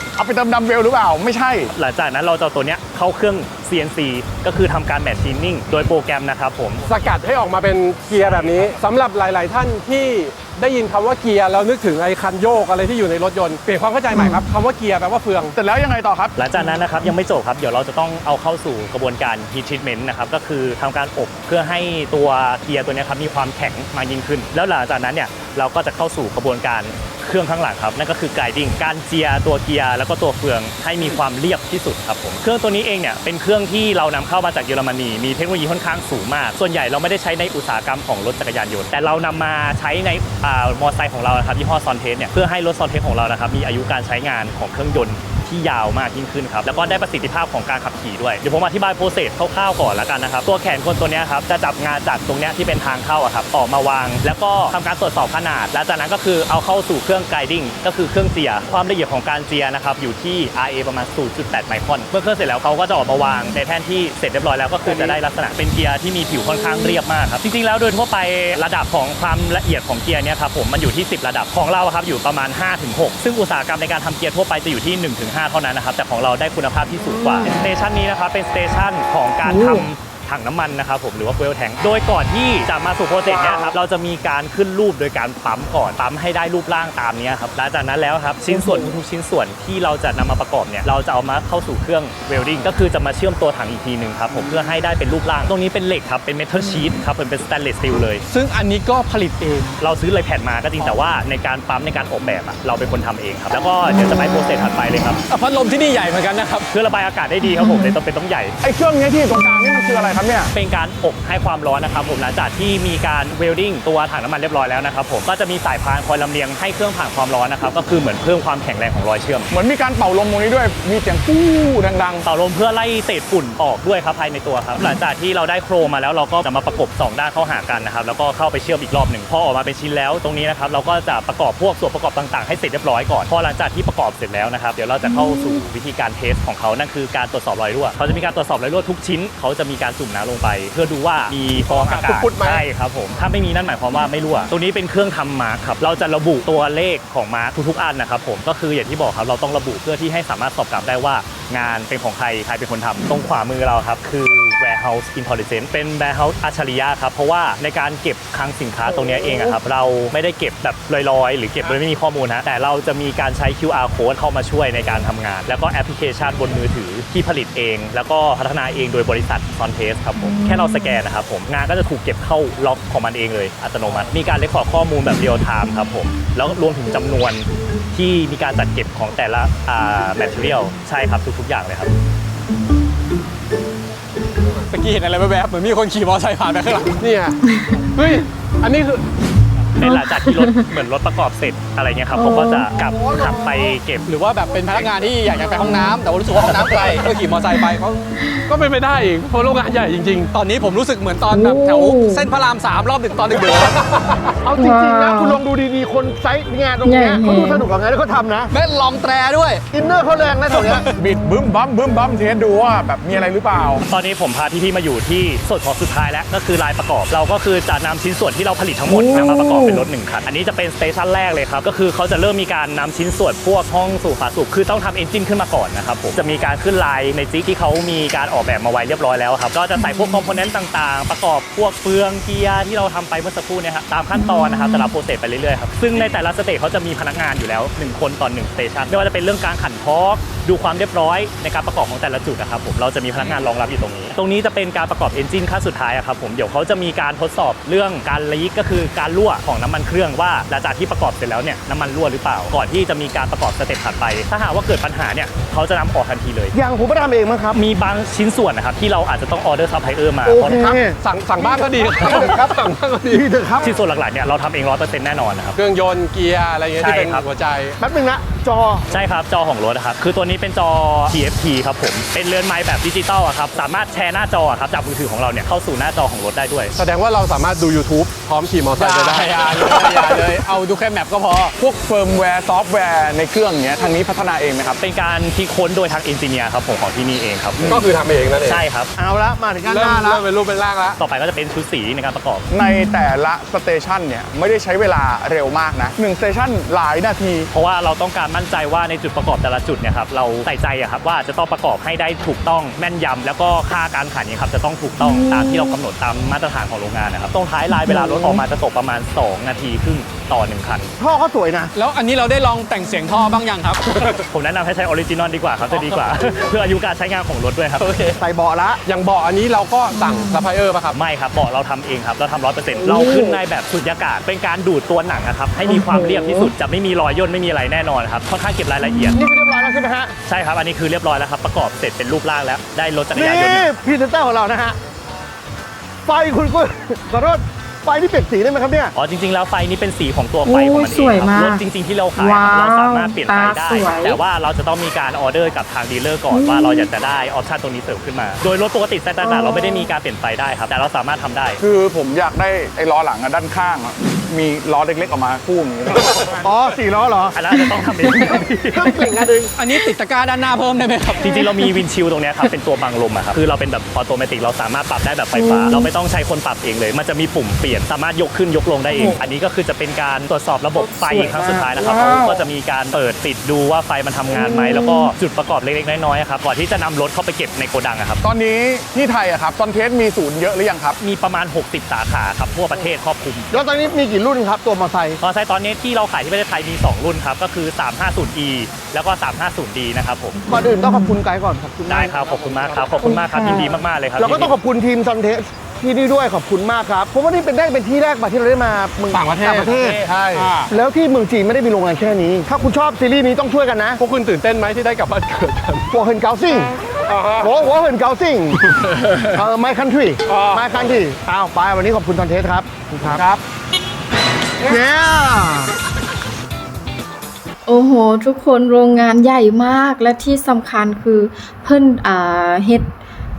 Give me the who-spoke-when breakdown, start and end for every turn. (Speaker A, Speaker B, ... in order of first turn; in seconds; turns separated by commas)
Speaker A: 0.1-1.7, Speaker B: 1.7-6.8, Speaker C: 6.8-15.5, Speaker D: 14.1-14.4, Speaker A: 15.5-16.3, Speaker B: 16.4-98.2, Speaker D: 77.0-77.5, Speaker D: 79.4-79.8, Speaker D: 88.5-88.9, Speaker E: 98.3-99.8, Speaker B: 99.8-105.2, Speaker E: 105.3-106.7, Speaker B: 106.7-108.5, Speaker D: 107.6-107.9, Speaker A: 108.6-110.5, Speaker B: 110.5-119.5, Speaker A: 119.5-122.2, Speaker B: 122.2-181.9, Speaker C: 141.6-142.6, Speaker D: 170.3-170.9, Speaker E: 184.7-187.0, Speaker C: 187.0-187.4, Speaker C: 187.9-189.0, Speaker B: 189.8-194.1, Speaker D: 189.8-190.6, Speaker D: 192.1-192.7, Speaker E: 194.1-198.1, Speaker C: 196.5-197.1, Speaker C: 198.5-200.3, Speaker E: 200.3-203.8, Speaker D: 201.3-202.3, Speaker F: 204.4-208.5, Speaker D: 204.6-205.4, Speaker D: 206.8-207.7, Speaker E: 208.5-209.6, Speaker F: 209.7-210.8, Speaker E: 210.5-210.9, Speaker A: 211.0-213.8, Speaker B: 213.8-256.5, Speaker D: 218.9-219.8, Speaker D: 234.4-234.7, Speaker F: 256.5-257.6, Speaker B: 257.5-260.8, Speaker F: 260.2-262.6, Speaker C: 260.4-263.3, Speaker F: 263.1-263.7, Speaker B: 263.6-265.6, Speaker C: 265.6-267.8, Speaker B: 266.8-267.2, Speaker F: 267.8-268.9, Speaker B: 268.9-276.8, Speaker C: 276.8-280.3, Speaker E: 278.7-281.5, Speaker A: 281.6-284.8, Speaker B: 284.8-287.9, Speaker C: 287.6-288.6, Speaker B: 288.4-288.9, Speaker F: 288.9-290.2, Speaker C: 289.6-291.0, Speaker B: 291.0-292.5, Speaker A: 292.5-297.5, Speaker B: 297.5-310.9, Speaker D: 305.0-305.8, Speaker D: 307.9-308.2, Speaker F: 311.0-311.7, Speaker E: 311.7-314.2, Speaker B: 314.3-318.0, Speaker E: 317.8-318.2, Speaker F: 318.2-318.8, Speaker C: 318.9-321.0, Speaker B: 320.9-329.2, Speaker D: 325.7-326.4, Speaker F: 329.1-330.1, Speaker B: 330.2-333.7, Speaker F: 333.1-334.8, Speaker F: 336.0-338.9, Speaker B: 338.9-351.6, Speaker D: 340.4-344.2, Speaker D: 346.3-346.9, Speaker D: 349.2-349.9, Speaker A: 351.6-356.5, Speaker F: 356.4-357.4, Speaker B: 357.3-359.0, Speaker F: 358.1-359.5, Speaker E: 359.6-361.4, Speaker B: 361.2-378.2, Speaker D: 365.3-365.9, Speaker D: 371.1-371.6, Speaker F: 371.9-372.2, Speaker D: 374.4-375.1, Speaker A: 378.2-381.0, Speaker B: 381.0-383.5, Speaker F: 383.5-385.2, Speaker B: 385.2-390.4, Speaker F: 390.5-404.0, Speaker D: 390.8-391.1, Speaker B: 391.9-394.5, Speaker C: 399.1-400.7, Speaker A: 399.7-400.5, Speaker C: 404.0-405.9, Speaker F: 405.9-406.7, Speaker C: 407.1-407.6, Speaker F: 407.4-413.2, Speaker C: 410.3-411.0, Speaker C: 413.0-413.4, Speaker F: 414.6-415.7, Speaker D: 417.7-422.9